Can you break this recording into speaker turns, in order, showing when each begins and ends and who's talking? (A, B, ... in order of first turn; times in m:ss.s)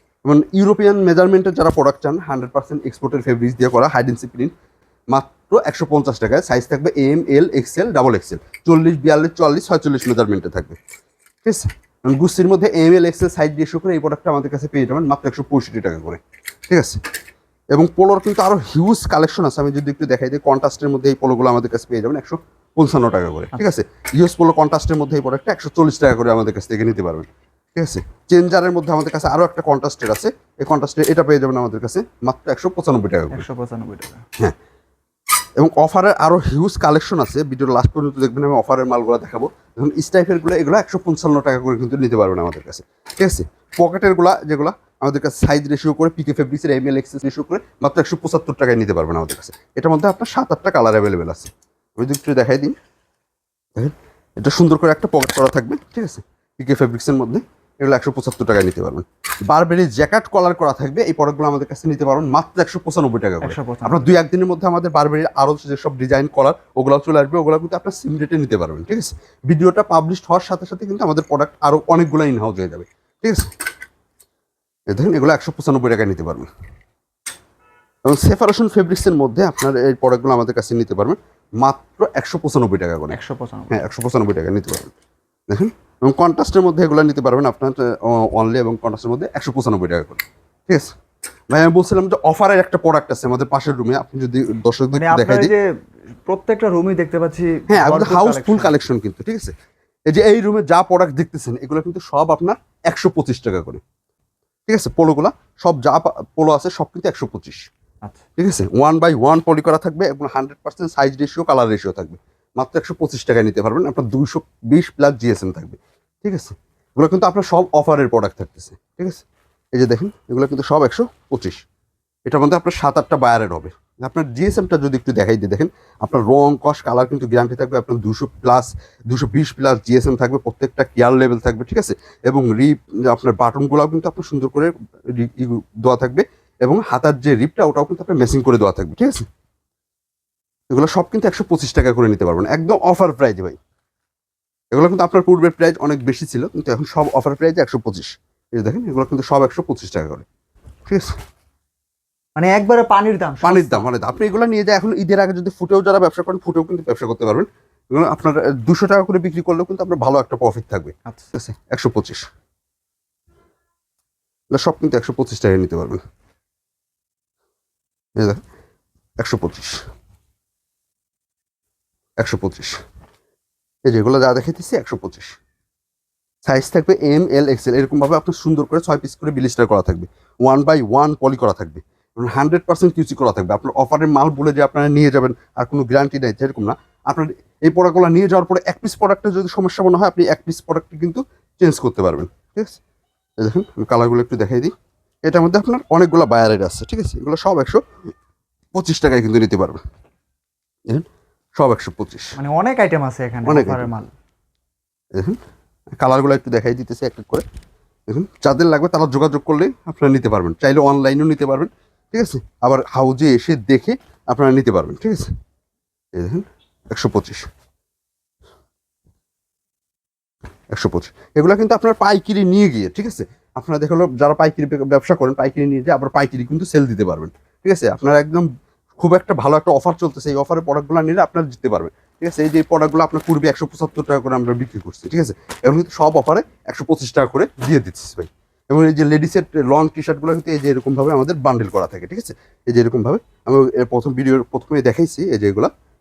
0:00.2-0:04.5 A
0:05.1-0:10.8 A
0:11.4-0:17.0 A
0:17.7-0:33.4 A
0:33.3-0:34.2 B
0:35.6-0:52.7 A
0:53.8-1:13.5 A
1:03.4-1:04.0 B
1:14.9-1:16.5 A
1:18.0-1:23.2 A
1:23.1-1:23.8 B
1:23.7-1:24.9 A
1:25.5-1:30.9 A
1:31.5-1:35.5 A
1:34.9-1:35.7 B
1:36.2-1:38.8 B
1:37.7-1:39.5 A
1:40.0-1:43.8 A
1:44.7-1:47.7 A
1:48.4-2:01.6 A
2:02.2-2:19.2 A
2:20.7-2:23.6 A
2:24.7-2:30.2 A
2:30.9-2:31.2 A
2:32.4-2:33.9 B
2:33.4-2:42.2 A
2:44.5-2:46.0 A
2:48.2-2:48.4 A
2:49.2-2:49.8 A
2:52.2-2:52.8 A
2:53.8-2:55.4 A
2:56.4-3:12.8 A
3:13.4-3:14.7 A
3:15.2-3:17.8 A
3:18.7-3:19.8 A
3:21.6-3:22.4 A
3:22.4-3:24.1 B
3:23.4-3:23.9 A
3:25.1-3:25.4 A
3:26.0-3:27.4 A
3:28.1-3:35.3 A
3:36.1-3:37.5 A
3:40.7-4:05.7 A